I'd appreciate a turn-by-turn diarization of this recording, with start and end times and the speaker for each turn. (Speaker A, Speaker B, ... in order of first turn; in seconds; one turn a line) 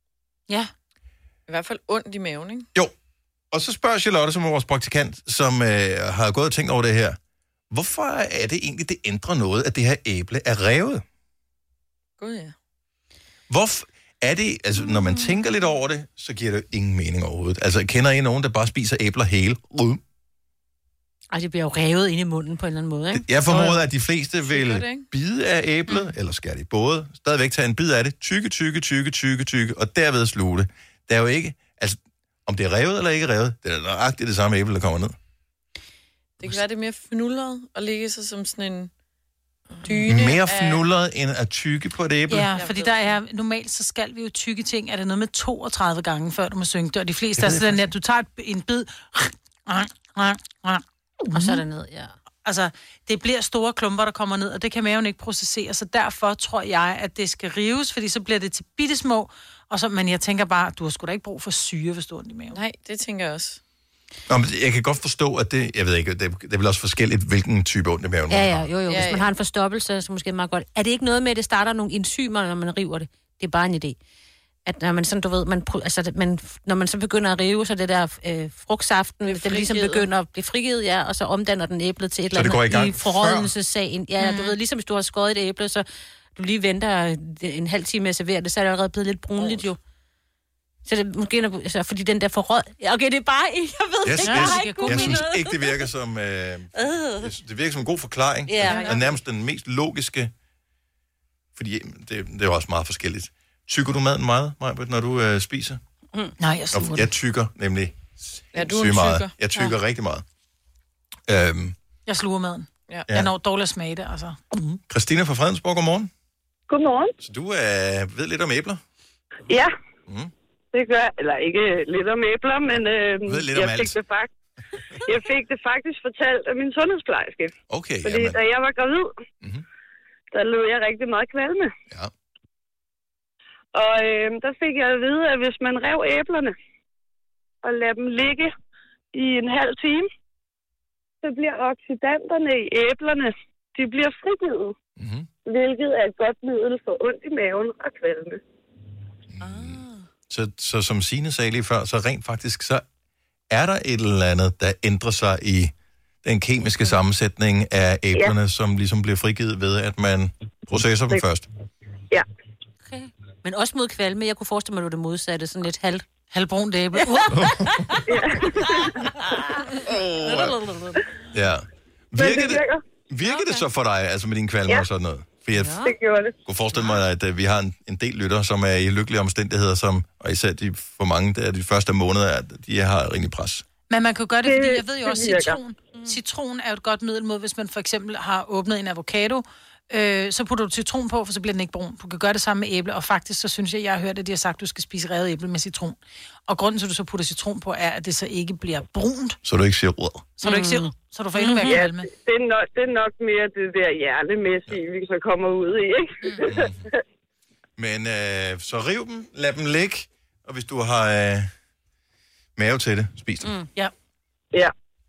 Speaker A: 1.5-2.7
Speaker B: 3.5-7.2
Speaker B: 7.7-11.0
Speaker A: 12.2-12.5
Speaker B: 13.5-20.0
Speaker C: 21.3-23.8
Speaker B: 23.1-35.1
Speaker A: 24.4-25.1
Speaker A: 36.4-38.9
Speaker A: 39.7-40.8
Speaker B: 40.0-42.5
Speaker D: 42.3-51.6
Speaker A: 42.5-43.2
Speaker B: 47.4-47.8
Speaker C: 51.3-52.1
Speaker D: 52.4-62.6
Speaker A: 62.5-63.6
Speaker B: 64.3-68.7
Speaker C: 68.3-74.0
Speaker A: 68.9-69.3
Speaker C: 74.7-89.8
Speaker A: 79.2-80.1
Speaker B: 82.3-83.5
Speaker D: 84.2-84.5
Speaker A: 89.3-89.7
Speaker C: 90.8-95.8
Speaker B: 94.0-100.3
Speaker D: 94.2-95.2
Speaker C: 96.8-97.3
Speaker C: 98.5-99.0
Speaker A: 98.6-99.1
Speaker B: 101.5-105.8
Speaker D: 106.4-107.1
Speaker B: 106.7-110.2
Speaker A: 108.5-109.3
Speaker B: 111.3-111.7
Speaker D: 112.1-114.8
Speaker B: 114.9-116.1
Speaker E: 116.7-117.1
Speaker B: 117.2-118.8
Speaker E: 119.5-119.7
Speaker B: 120.1-120.3
Speaker E: 120.7-124.3
Speaker B: 123.2-124.0
Speaker E: 125.0-129.1
Speaker B: 127.7-128.4
Speaker E: 130.3-131.7
Speaker E: 133.7-136.5
Speaker E: 137.6-138.5
Speaker E: 139.1-140.1
Speaker E: 141.2-144.7
Speaker B: 145.0-145.3
Speaker E: 145.4-148.4
Speaker B: 149.3-152.8
Speaker A: 149.4-150.0
Speaker B: 153.5-155.7
Speaker B: 156.2-161.4
Speaker C: 163.4-166.0
Speaker D: 166.3-167.4
Speaker B: 167.3-167.8
Speaker E: 168.0-169.0
Speaker B: 169.9-170.5
Speaker C: 170.2-171.0
Speaker B: 171.3-175.8
Speaker E: 172.2-172.8
Speaker C: 175.6-175.9
Speaker E: 175.8-176.3
Speaker B: 176.4-183.6
Speaker D: 183.9-199.4
Speaker E: 184.4-185.6
Speaker B: 199.4-200.3
Speaker D: 200.4-202.1
Speaker C: 200.4-201.7
Speaker E: 201.7-207.0
Speaker B: 206.4-206.8
Speaker B: 207.8-211.5
Speaker B: 212.6-213.5
Speaker C: 213.4-213.7